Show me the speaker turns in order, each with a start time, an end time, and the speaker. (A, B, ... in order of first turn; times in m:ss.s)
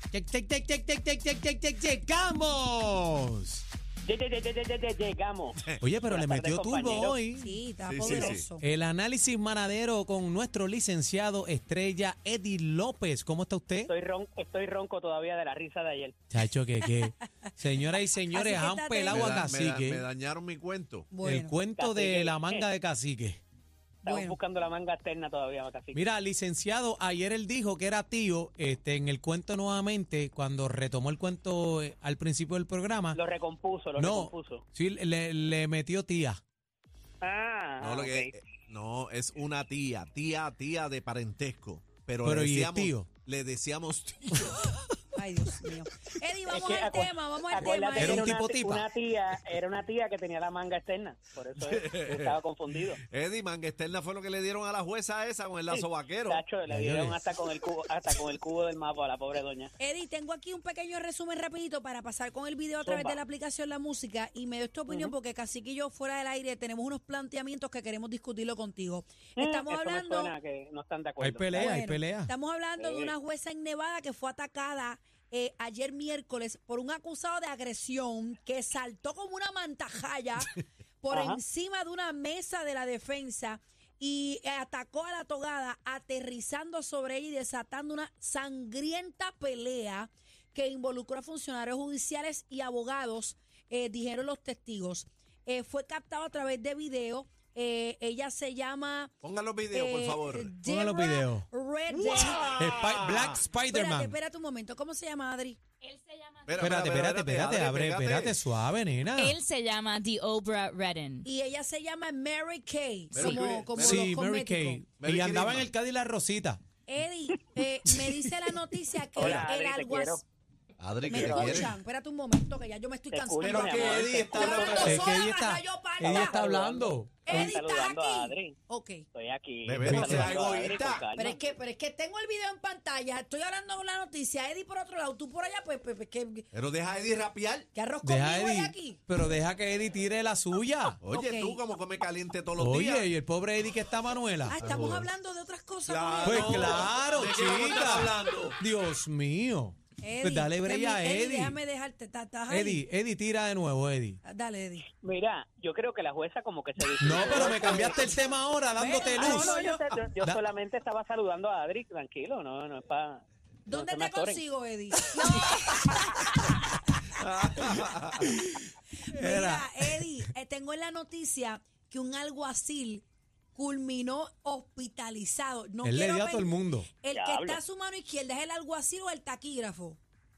0:00.1-0:03.6 A
0:04.0-0:07.2 B
0:05.8-0:07.6 A
0:07.3-0:08.6 C
0:07.8-0:08.5 D
0:08.6-0:13.9 A
0:13.9-0:16.2 B
0:16.3-0:20.0 A
0:16.8-0:17.5 C
0:18.3-0:19.4 C
0:19.1-0:21.1 D
0:21.1-0:21.6 C
0:21.2-0:23.4 A
0:21.8-0:22.6 B
0:24.0-0:26.0 B
0:24.0-0:24.4 C
0:25.9-0:33.2 A
0:33.1-0:34.6 B
0:33.9-0:36.4 A
0:37.2-0:38.3 B
0:37.8-0:44.7 D
0:42.2-0:43.1 A
0:45.2-0:48.4 C
0:46.5-0:53.0 B
0:47.9-0:48.9 A
0:51.7-0:52.4 D
0:53.0-0:56.4 D
0:55.7-0:59.7 B
0:56.7-0:57.2 A
0:59.8-1:10.3 C
1:02.8-1:03.2 B
1:09.4-1:11.8 B
1:11.2-1:12.3 A
1:11.5-1:39.1 C
1:12.8-1:13.1 B
1:21.1-1:21.4 B
1:39.2-1:40.5 D
1:39.7-1:42.5 C
1:40.6-1:41.4 A
1:41.9-1:43.4 D
1:42.3-1:44.1 A
1:43.7-1:45.6 C
1:45.8-1:46.6 E
1:46.4-1:48.4 D
1:46.6-1:49.4 A
1:49.2-1:51.2 E
1:51.2-1:54.8 C
1:53.1-1:54.1 D
1:53.2-1:56.6 A
1:55.0-1:55.7 D
1:56.8-2:00.2 C
1:59.2-2:00.2 B
1:59.2-1:59.4 D
2:00.8-2:01.7 D
2:01.1-2:01.7 B
2:01.1-2:06.5 C
2:03.1-2:05.2 B
2:03.4-2:04.9 D
2:03.5-2:07.5 A
2:06.0-2:08.6 B
2:07.2-2:09.0 C
2:09.1-2:11.4 B
2:09.6-2:11.0 D
2:09.8-2:10.4 A
2:11.1-2:16.4 C
2:16.5-2:17.7 D
2:17.7-2:19.0 C
2:18.0-2:21.0 A
2:21.0-2:23.1 D
2:21.0-2:21.6 C
2:22.6-2:24.6 A
2:24.4-2:26.9 C
2:24.6-2:25.1 D
2:25.8-2:28.6 D
2:26.2-2:31.6 A
2:30.0-2:32.8 C
2:32.5-2:34.2 A
2:34.2-2:34.9 C
2:35.0-2:38.2 B
2:37.0-2:39.6 A
2:38.8-2:39.8 C
2:39.1-2:44.4 B
2:43.6-2:45.5 C
2:45.4-2:45.8 E
2:47.1-2:48.3 D
2:47.6-2:50.3 A
2:49.1-3:00.0 C
2:55.8-2:56.9 A
2:57.1-2:57.6 B